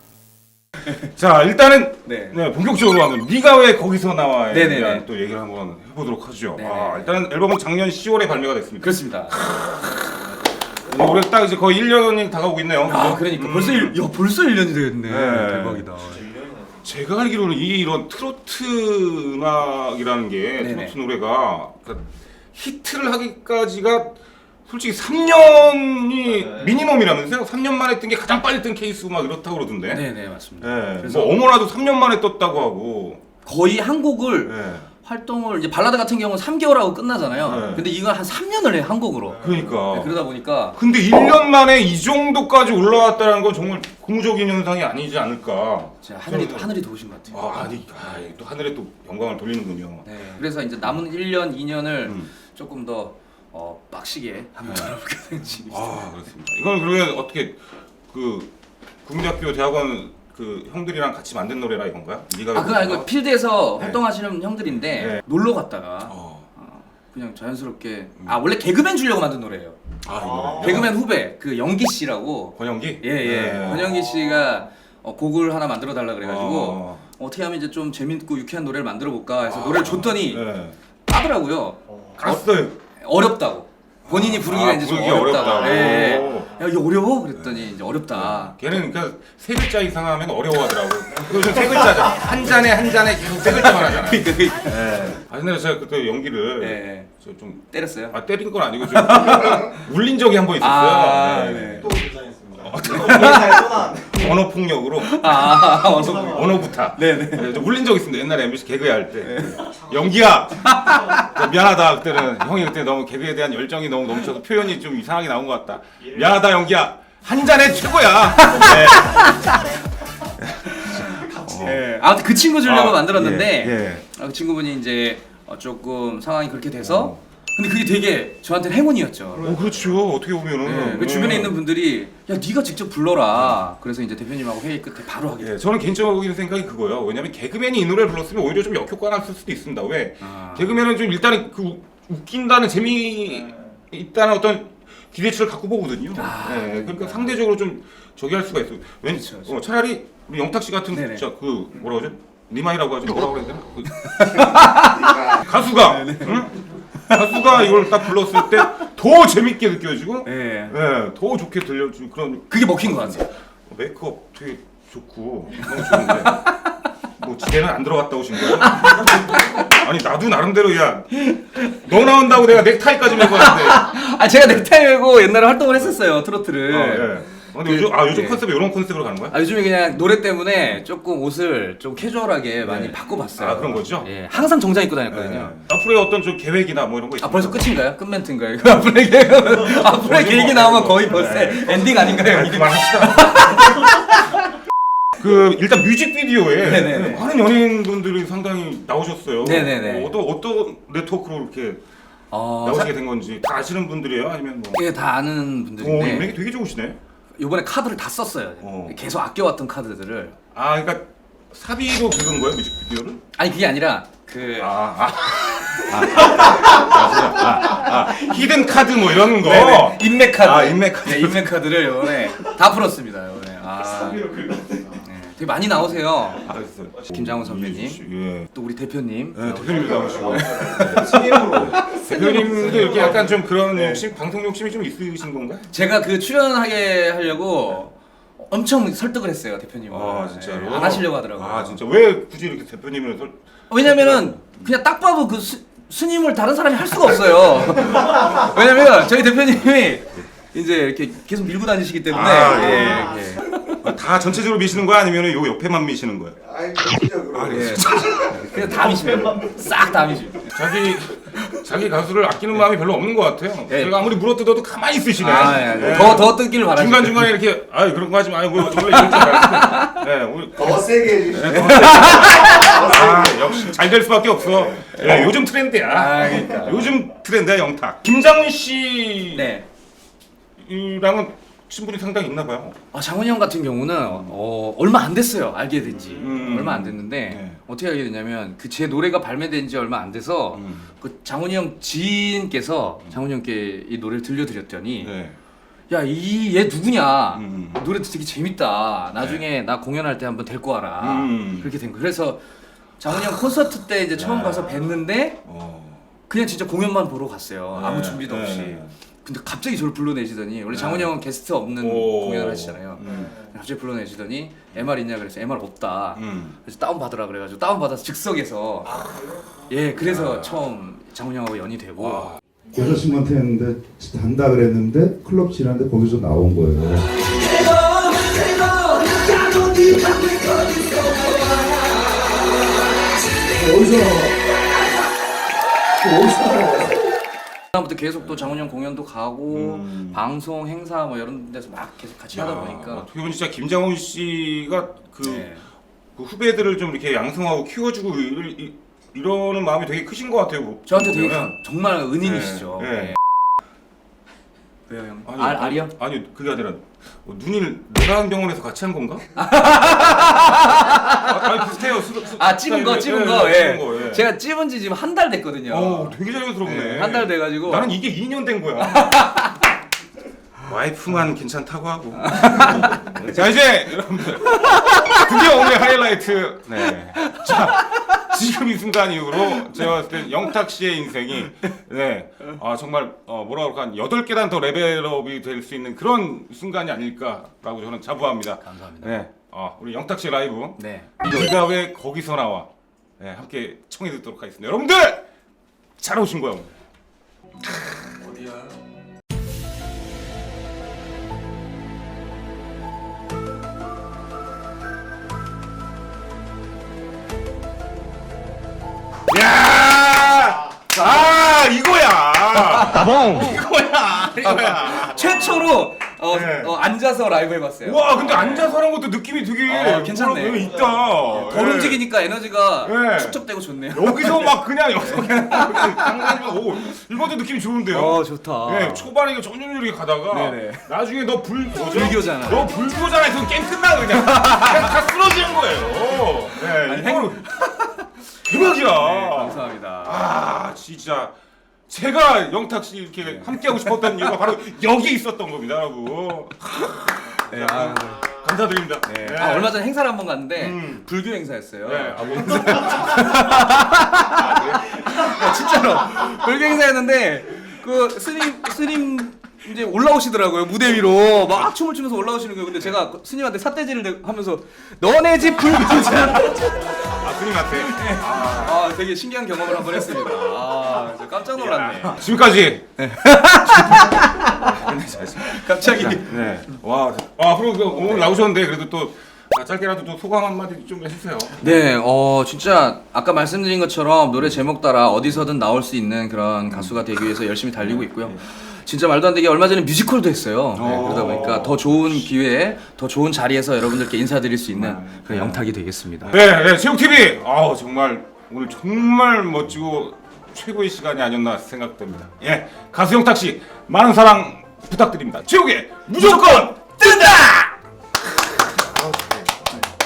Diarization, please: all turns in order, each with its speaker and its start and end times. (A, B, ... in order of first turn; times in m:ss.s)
0:00.8-0:14.0 A
0:04.5-0:05.0 B
0:06.6-0:07.2 B
0:08.8-0:09.4 B
0:12.8-0:16.2 B
0:15.1-0:15.9 A
0:16.2-0:16.6 C
0:16.8-0:24.2 A
0:20.6-0:21.0 B
0:24.7-0:30.0 A
0:29.9-0:31.4 B
0:30.6-0:33.2 A
0:33.5-0:34.6 B
0:34.5-0:34.9 A
0:35.1-0:35.6 D
0:35.2-0:40.8 B
0:37.4-0:37.9 A
0:39.3-0:40.2 A
0:40.8-0:46.7 A
0:46.0-0:48.3 B
0:47.3-0:50.1 A
0:50.1-0:56.0 B
0:52.0-0:52.4 A
0:54.6-0:55.0 A
0:55.6-0:58.5 A
0:59.0-1:03.1 A
1:02.5-1:09.8 B
1:04.8-1:05.2 A
1:06.0-1:06.5 A
1:10.0-1:11.0 A
1:10.2-1:10.5 C
1:10.5-1:20.5 B
1:12.6-1:14.0 A
1:14.0-1:14.4 D
1:16.2-1:17.1 A
1:19.4-1:20.8 A
1:21.2-1:23.6 B
1:21.2-1:21.6 D
1:22.2-1:22.8 A
1:24.1-1:26.5 A
1:24.1-1:28.6 B
1:27.3-1:41.9 A
1:31.7-1:32.0 B
1:33.5-1:34.8 B
1:36.6-1:37.0 B
1:37.7-1:38.1 B
1:38.8-1:39.8 B
1:40.6-1:42.0 B
1:41.8-1:44.2 C
1:42.6-1:45.2 A
1:43.0-1:43.8 B
1:45.0-1:47.5 B
1:45.3-1:45.8 D
1:45.8-1:46.2 C
1:46.2-1:59.2 A
1:49.2-1:49.6 B
1:50.6-1:51.2 B
1:58.4-1:59.5 B
2:00.4-2:01.9 A
2:00.7-2:09.6 B
2:02.6-2:04.1 A
2:06.8-2:07.2 A
2:09.4-2:11.6 A
2:10.6-2:15.5 B
2:13.3-2:13.6 A
2:15.4-2:34.4 A
2:20.2-2:20.8 B
2:26.2-2:27.3 B
2:29.2-2:29.6 B
2:30.9-2:31.2 B
2:33.9-2:36.4 B
2:34.6-2:35.3 D
2:35.0-2:35.3 C
2:35.3-2:46.5 A
2:37.1-2:38.7 B
2:40.2-2:40.7 B
2:42.5-2:43.2 B
2:45.6-2:46.8 B
2:47.2-2:54.7 A
2:48.4-2:49.8 B
2:51.1-2:51.8 B
2:53.2-2:58.4 B
2:56.7-2:59.4 A
2:59.3-3:05.5 B
3:02.6-3:04.1 A
3:05.1-3:07.7 A
3:07.2-3:14.4 B
3:09.9-3:13.6 A
3:15.2-3:21.8 A
3:16.6-3:17.3 B
3:19.4-3:20.2 B
3:22.3-3:22.9 B
3:22.6-3:24.8 A
3:24.7-3:26.4 B
3:25.8-3:27.0 A
3:27.4-3:30.4 B
3:28.6-3:29.0 A
3:30.5-3:33.2 A
3:33.4-3:34.8 B
3:34.6-3:41.6 A
3:36.0-3:38.0 B
3:39.4-3:46.4 B
3:43.7-3:44.1 D
3:44.3-3:44.8 C
3:46.0-3:46.3 D
3:46.4-3:48.5 A
3:47.1-3:48.0 B
3:48.5-3:53.2 B
3:49.4-3:55.7 A
3:49.9-3:51.6 C
3:53.8-3:54.0 B
3:55.7-4:01.8 B
3:59.9-4:04.7 A
4:03.7-4:13.8 B
4:07.9-4:08.4 D
4:12.1-4:13.2 A
4:13.2-4:13.5 D
4:13.7-4:16.4 A
4:16.5-4:17.6 C
4:17.3-4:18.7 A
4:17.4-4:17.9 D
4:17.4-4:20.5 B
4:18.5-4:20.2 D
4:18.9-4:19.5 C
4:20.4-4:39.5 A
4:23.7-4:24.0 B
4:25.2-4:27.3 B
4:28.8-4:30.0 B
4:30.6-4:33.2 C
4:31.4-4:32.8 B
4:35.9-4:36.9 B
4:39.3-4:39.6 B
4:40.6-4:42.8 A
4:42.9-4:55.1 B
4:44.0-4:44.4 A
4:46.0-4:47.6 A
4:50.5-4:50.9 A
4:55.0-4:55.4 A
4:55.9-5:02.4 B
4:57.3-4:57.8 A
4:59.2-4:59.4 A
5:01.0-5:01.7 A
5:03.0-5:05.4 B
5:03.1-5:03.5 A
5:04.2-5:04.8 A
5:05.4-5:06.0 A
5:06.3-5:19.1 B
5:07.7-5:08.9 A
5:10.7-5:11.1 A
5:11.8-5:13.5 A
5:16.2-5:16.6 A
5:16.8-5:17.4 D
5:18.9-5:19.3 A
5:19.7-5:22.3 B
5:20.0-5:20.7 A
5:22.0-5:23.1 A
5:22.7-5:32.0 D
5:23.1-5:23.4 C
5:33.4-5:34.4 D
5:36.0-5:37.0 D
5:37.7-5:43.1 B
5:38.2-5:38.7 A
5:39.5-5:40.2 A
5:42.3-5:45.5 A
5:45.2-5:45.6 B
5:46.2-5:51.6 A
5:50.9-5:53.2 B
5:52.2-5:53.2 A
5:54.9-5:55.9 B
5:55.3-5:59.2 A
5:59.4-6:01.7 B
6:01.1-6:04.3 A
6:02.3-6:07.9 B
6:05.7-6:09.2 A
6:08.8-6:09.7 B
6:10.6-6:35.3 A
6:12.2-6:13.0 B
6:14.4-6:15.4 B
6:16.8-6:18.2 B
6:28.6-6:29.1 B
6:30.8-6:31.5 B
6:36.0-6:36.7 A
6:49.3-6:53.2 A
6:52.8-6:58.8 B
6:53.2-6:54.0 D
6:54.3-6:55.5 A
6:56.3-6:56.8 A
6:57.8-7:02.0 A
6:59.6-7:06.4 B
7:02.8-7:17.6 A
7:07.9-7:09.1 B
7:10.3-7:10.9 B
7:11.8-7:12.7 B
7:14.1-7:15.0 B
7:16.4-7:20.3 B
7:18.4-7:21.3 A
7:21.9-7:29.8 A
7:23.3-7:24.4 B
7:27.5-7:28.3 B
7:29.0-7:47.1 B
7:30.6-7:31.0 A
7:31.8-7:33.3 A
7:33.9-7:34.4 D
7:34.3-7:34.9 A
7:35.0-7:36.3 D
7:46.4-7:46.9 D
7:47.0-7:48.8 A
7:47.8-7:52.2 B
7:51.5-7:53.0 A
7:53.0-7:56.8 B
7:53.9-7:54.5 D
7:54.5-8:01.7 A
8:01.6-8:16.4 B
8:06.6-8:07.1 A
8:07.8-8:08.4 A
8:10.7-8:12.3 A
8:14.7-8:15.7 A
8:16.2-8:27.5 A
8:26.2-8:27.3 B
8:28.6-8:29.8 A